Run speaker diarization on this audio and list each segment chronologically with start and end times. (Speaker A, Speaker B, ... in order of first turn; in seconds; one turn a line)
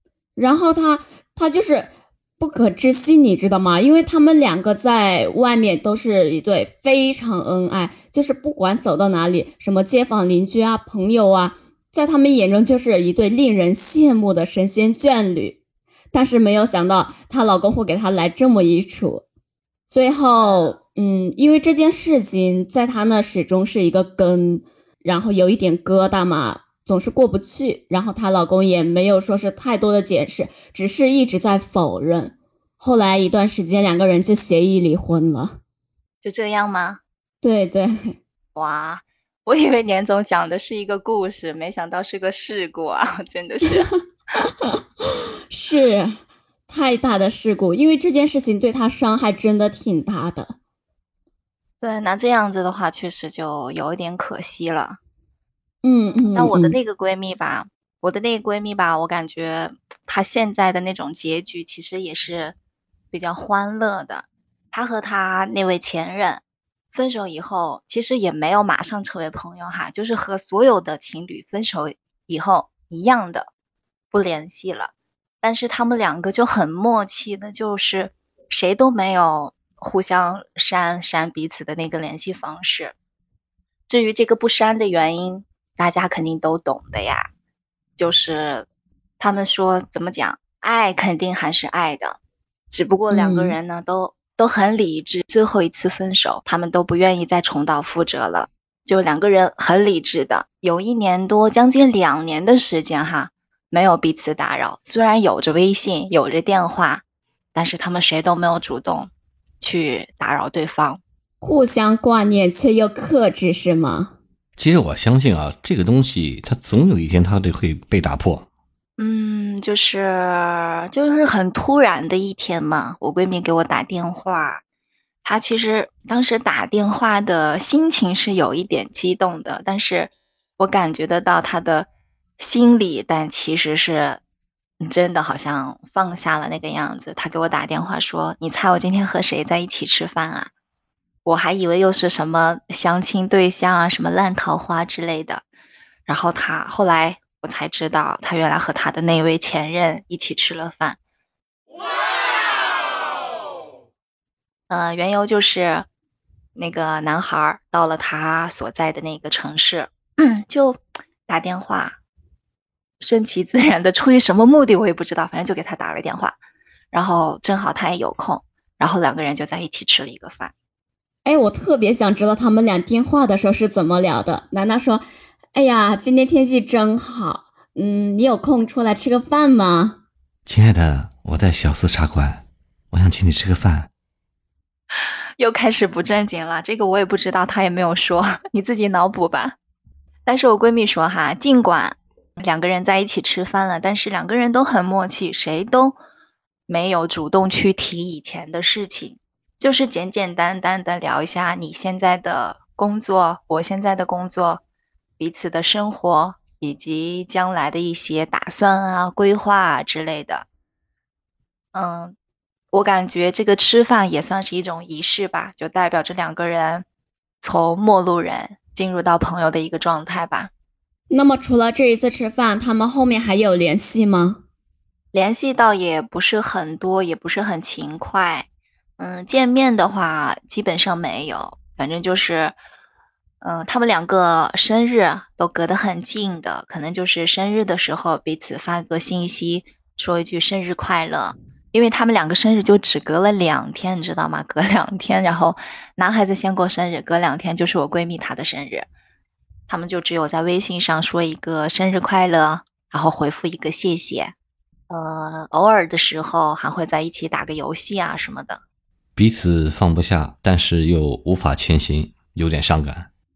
Speaker A: 0.4-15.6
Speaker A: 16.1-19.2
Speaker A: 19.9-35.6
Speaker B: 36.2-37.0
Speaker A: 37.4-38.2
Speaker B: 38.5-43.9
Speaker A: 44.4-50.6
Speaker B: 51.8-55.0
Speaker A: 55.8-56.8
Speaker B: 56.3-62.5
Speaker B: 63.1-66.4
Speaker B: 66.9-73.5
Speaker B: 74.1-82.9
Speaker B: 83.9-87.3
Speaker B: 88.0-88.7
Speaker B: 89.2-92.2
Speaker B: 92.7-107.0
Speaker A: 93.1-93.6
Speaker B: 107.5-111.0
Speaker A: 111.4-114.2
Speaker C: 114.6-118.5
Speaker B: 119.0-124.6
Speaker B: 125.2-131.9
Speaker B: 132.4-134.2
Speaker B: 134.8-140.5
Speaker B: 141.2-145.4
Speaker B: 146.1-151.0
Speaker B: 154.7-155.9
Speaker B: 156.6-162.0
Speaker B: 163.0-166.4
Speaker B: 166.9-170.5
Speaker A: 171.2-180.0
Speaker C: 180.5-183.9
Speaker B: 185.4-189.5
Speaker B: 190.2-196.0
Speaker B: 196.7-204.6
Speaker B: 205.2-210.4
Speaker B: 211.7-212.2
Speaker B: 212.7-216.8
Speaker B: 217.4-220.5
Speaker A: 221.1-224.4
Speaker B: 225.1-228.5
Speaker B: 229.0-232.6
Speaker B: 233.4-248.9
Speaker B: 249.7-254.3
Speaker B: 254.9-258.6
Speaker C: 259.1-263.1